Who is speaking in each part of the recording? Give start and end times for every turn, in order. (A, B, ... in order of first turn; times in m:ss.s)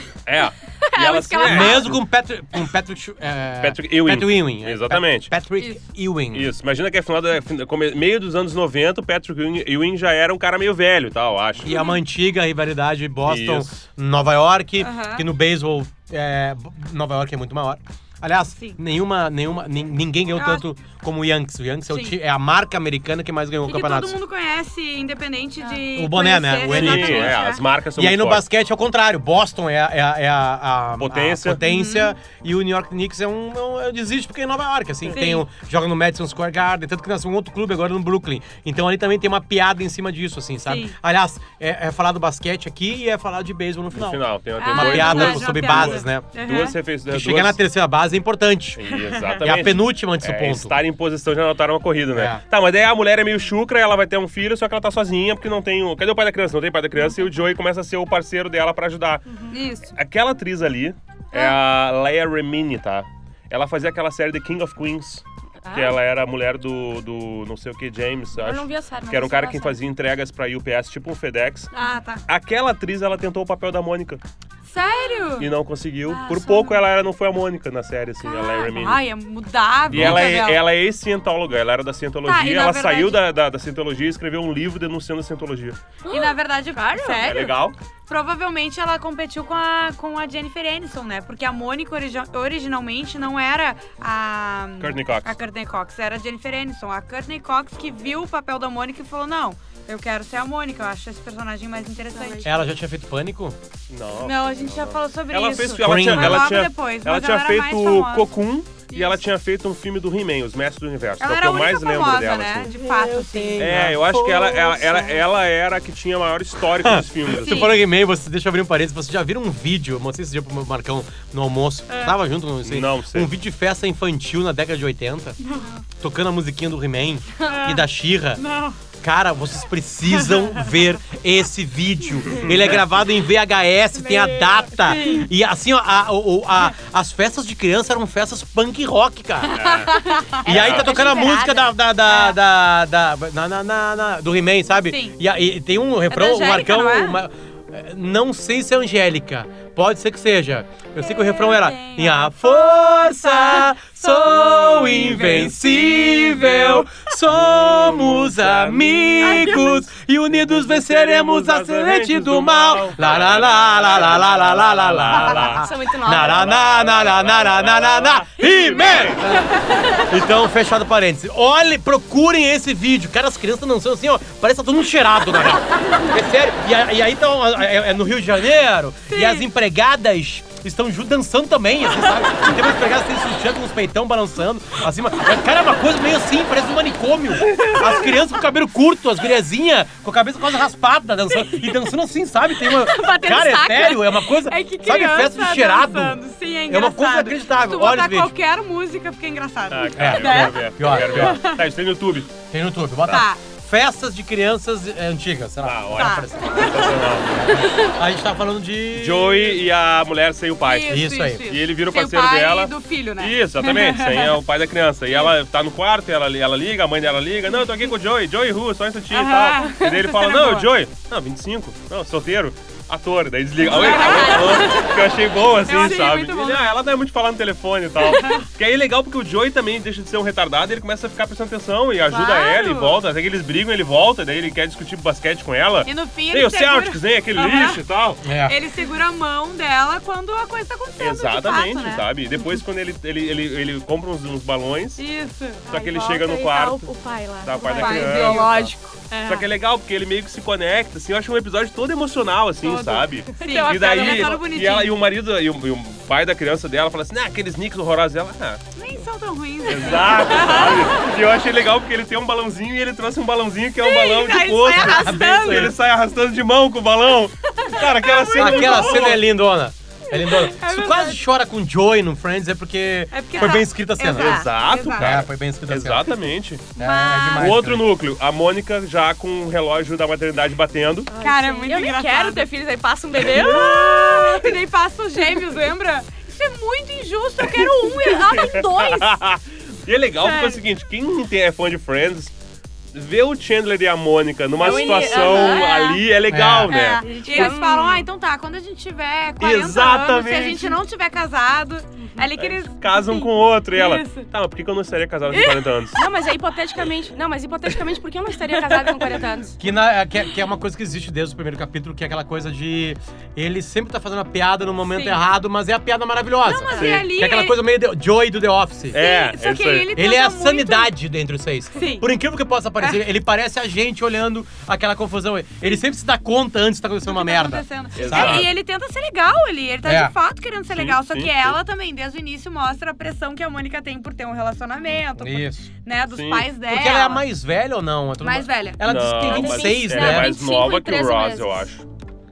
0:00.2-0:02.0 A
0:00.8-0:02.0 B
0:01.4-0:06.5 C
0:03.6-0:05.3 A
0:06.3-0:11.8 A
0:11.6-0:24.2 C
0:11.7-0:12.0 D
0:13.3-0:13.8 A
0:14.8-0:15.2 D
0:20.3-0:20.6 D
0:21.9-0:22.2 D
0:23.6-0:27.6 D
0:25.8-0:27.4 C
0:26.7-0:28.4 A
0:28.0-0:46.3 C
0:31.0-0:31.6 A
0:31.6-0:32.1 D
0:35.1-0:35.4 D
0:40.7-0:40.9 D
0:43.9-0:47.6 A
0:44.6-0:46.8 D
0:47.1-0:50.8 C
0:48.8-0:59.2 A
0:49.0-0:49.7 D
0:52.1-0:52.4 C
0:59.3-0:59.6 B
0:59.5-0:59.9 D
0:59.9-1:11.7 A
1:01.3-1:01.6 B
1:05.6-1:06.0 B
1:08.4-1:09.8 B
1:11.7-1:12.2 D
1:12.3-1:14.2 A
1:14.7-1:15.5 D
1:14.8-1:15.3 B
1:15.4-1:19.0 A
1:16.1-1:16.8 D
1:18.2-1:20.6 D
1:19.9-1:25.8 A
1:19.9-1:20.2 C
1:22.2-1:23.2 D
1:26.0-1:27.3 B
1:26.1-1:42.5 D
1:27.2-1:27.7 A
1:34.8-1:35.4 A
1:42.1-1:42.5 B
1:42.4-1:43.6 C
1:43.9-1:52.7 A
1:44.2-1:48.3 D
1:45.8-1:46.6 C
1:48.9-1:49.2 D
1:51.2-1:53.7 D
1:52.6-1:55.1 B
1:53.4-1:54.5 C
1:53.6-1:57.7 A
1:56.7-2:05.4 C
1:57.4-1:57.8 D
2:01.9-2:02.1 D
2:02.6-2:03.3 A
2:05.4-2:05.8 D
2:05.9-2:08.4 C
2:07.4-2:07.7 B
2:07.4-2:07.8 D
2:08.4-2:08.8 D
2:09.0-2:19.6 C
2:10.1-2:10.6 D
2:12.4-2:12.8 A
2:14.0-2:15.0 B
2:14.8-2:15.3 D
2:19.4-2:20.4 D
2:19.5-2:20.9 A
2:19.9-2:21.7 B
2:20.4-3:18.3 C
2:22.1-2:22.4 D
2:24.9-2:25.2 D
2:26.1-2:27.2 D
2:31.0-2:35.5 D
2:34.9-2:39.7 A
2:39.2-2:39.9 D
2:40.3-2:49.2 A
2:45.3-2:46.5 B
2:48.4-2:50.0 D
2:49.3-2:50.1 B
2:59.1-2:59.4 D
3:07.4-3:07.9 A
3:12.6-3:14.3 B
3:14.5-3:21.6 D
3:19.7-3:22.3 A
3:20.0-3:21.4 C
3:22.5-3:29.6 C
3:23.1-3:23.4 D
3:25.6-3:27.6 A
3:25.9-3:26.6 D
3:28.9-3:58.2 A
3:30.6-3:34.4 D
3:30.9-3:31.5 C
3:39.1-3:40.7 D
3:43.6-3:46.7 D
3:43.6-3:45.0 B
3:48.0-3:48.5 D
3:52.1-3:53.0 D
3:55.8-3:57.8 D
3:58.2-3:58.6 C
3:58.4-4:02.0 D
4:01.0-4:05.0 A
4:05.0-4:05.8 D
4:05.7-4:06.9 A
4:05.7-4:09.4 B
4:07.4-4:08.7 A
4:07.7-4:08.6 D
4:09.2-4:18.7 A
4:12.6-4:15.0 D
4:12.7-4:14.4 B
4:18.7-4:21.0 D
4:19.6-4:29.2 A
4:23.8-4:25.7 D
4:24.7-4:25.7 C
4:27.4-4:29.2 D
4:28.3-4:36.1 C
4:30.1-4:31.2 D
4:33.1-4:35.2 D
4:33.4-4:34.5 B
4:34.1-4:36.7 A
4:36.8-4:37.5 B
4:36.8-4:37.9 C
4:36.8-4:37.5 D
4:37.4-4:41.1 A
4:41.1-4:44.4 B
4:41.2-4:42.5 D
4:43.2-4:44.3 A
4:43.3-4:49.0 D
4:47.4-4:52.3 A
4:48.3-4:49.2 B
4:50.2-4:50.6 D
4:52.9-4:57.5 A
4:54.6-4:56.0 B
4:54.6-4:55.9 D
4:56.3-4:56.8 C
4:56.7-5:04.3 D
4:57.0-4:58.1 B
4:59.4-5:00.8 A
5:02.4-5:06.0 A
5:05.3-5:09.6 B
5:09.6-5:19.0 C
5:14.9-5:15.2 D
5:16.4-5:17.6 D
5:16.7-5:17.1 A
5:18.9-5:19.9 A
5:19.0-5:20.9 D
5:19.9-5:28.5 C
5:21.8-5:22.1 D
5:27.0-5:37.2 D
5:28.0-5:28.5 A
5:29.8-5:30.1 C
5:30.7-5:31.6 A
5:35.2-5:35.7 C
5:36.1-5:36.5 A
5:36.7-5:40.4 C
5:38.2-5:38.8 D
5:38.8-5:41.8 A
5:39.2-5:41.6 B